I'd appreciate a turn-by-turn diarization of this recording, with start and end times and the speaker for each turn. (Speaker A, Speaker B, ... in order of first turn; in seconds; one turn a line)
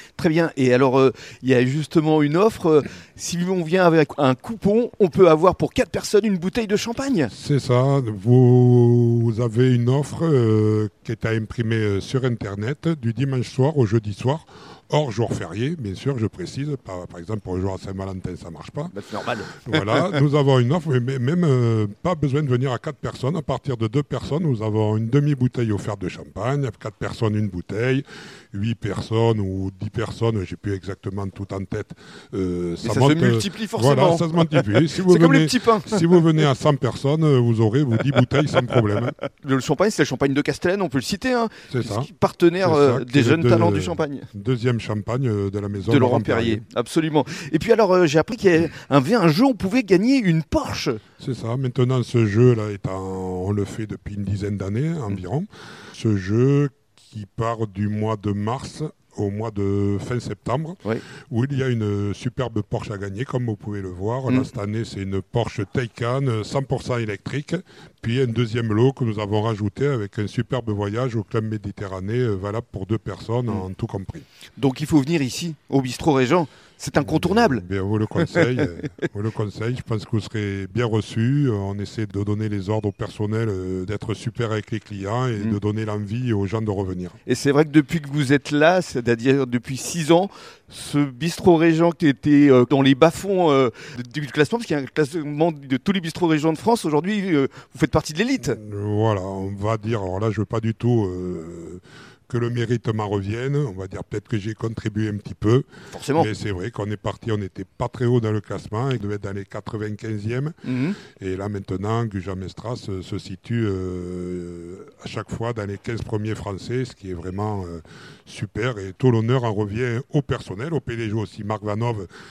Speaker A: 0.2-7.3
Speaker B: 7.3-18.9
Speaker A: 18.9-20.1
Speaker B: 19.6-39.1
Speaker A: 32.8-36.2
Speaker A: 39.2-44.3
Speaker B: 41.7-42.1
Speaker B: 42.6-46.6
Speaker A: 45.9-51.0
Speaker B: 51.2-74.2
Speaker A: 74.6-77.6
Speaker B: 77.0-87.2
Speaker A: 87.3-98.6
Speaker B: 98.5-122.1
Speaker A: 105.9-106.3
Speaker A: 110.7-111.0